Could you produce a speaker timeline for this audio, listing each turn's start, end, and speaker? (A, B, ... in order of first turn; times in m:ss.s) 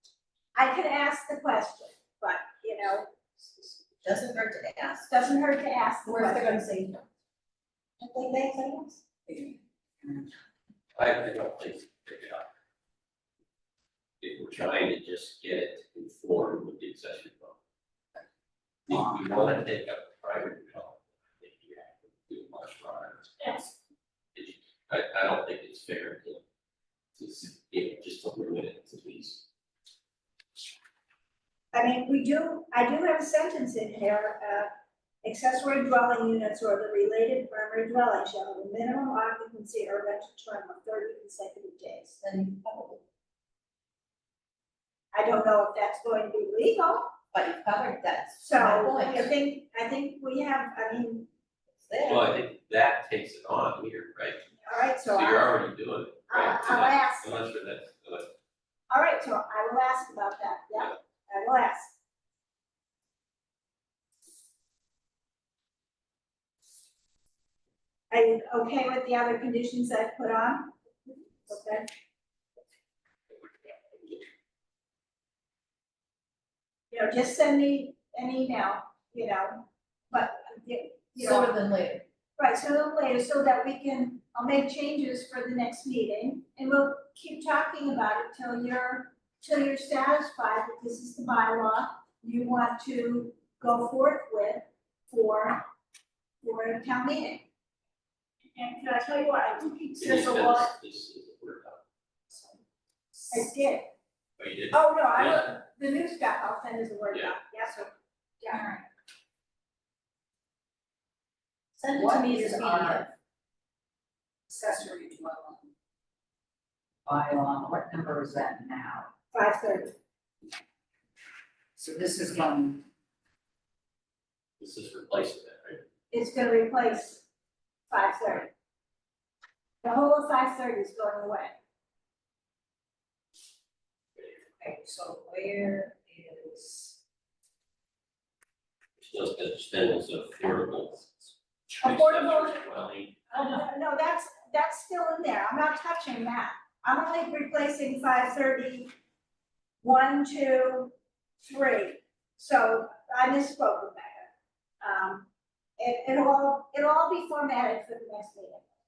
0:00.6-0:03.1 A
0:04.0-0:05.1 B
0:05.0-0:06.7 A
0:06.0-0:07.0 B
0:08.0-0:09.3 B
0:11.0-0:12.5 C
0:14.2-0:17.6 C
0:18.9-0:23.6 C
0:24.4-0:26.4 C
0:27.2-0:29.4 C
0:31.7-0:34.7 A
0:35.2-0:42.2 A
0:42.2-0:43.0 B
0:45.1-0:47.1 A
0:47.3-0:49.3 B
0:48.4-0:51.3 A
0:51.8-0:52.4 B
0:52.0-0:54.4 C
0:54.6-0:55.6 A
0:55.0-0:58.3 C
0:56.3-0:57.4 A
0:58.9-1:02.0 A
1:08.1-1:10.7 A
1:11.5-1:11.9 A
1:16.9-1:21.6 A
1:21.2-1:22.0 B
1:22.4-1:35.6 A
1:36.4-1:37.5 A
1:38.6-1:40.7 A
1:40.0-1:41.8 C
1:43.3-1:43.9 A
1:44.4-1:45.5 C
1:44.7-1:47.9 A
1:48.5-1:48.8 D
1:51.8-1:53.1 B
1:51.9-1:53.1 D
1:54.5-1:55.7 D
1:57.1-1:59.1 D
1:59.3-2:00.0 A
2:01.8-2:02.8 D
2:04.6-2:05.9 C
2:06.1-2:07.2 A
2:07.9-2:08.5 A
2:09.8-2:11.6 A
2:14.2-2:17.0 D
2:19.0-2:23.2 C
2:21.8-2:22.6 A
2:23.3-2:28.9 A
2:29.8-2:34.3 A
2:34.8-2:35.3 A
2:35.8-2:38.7 A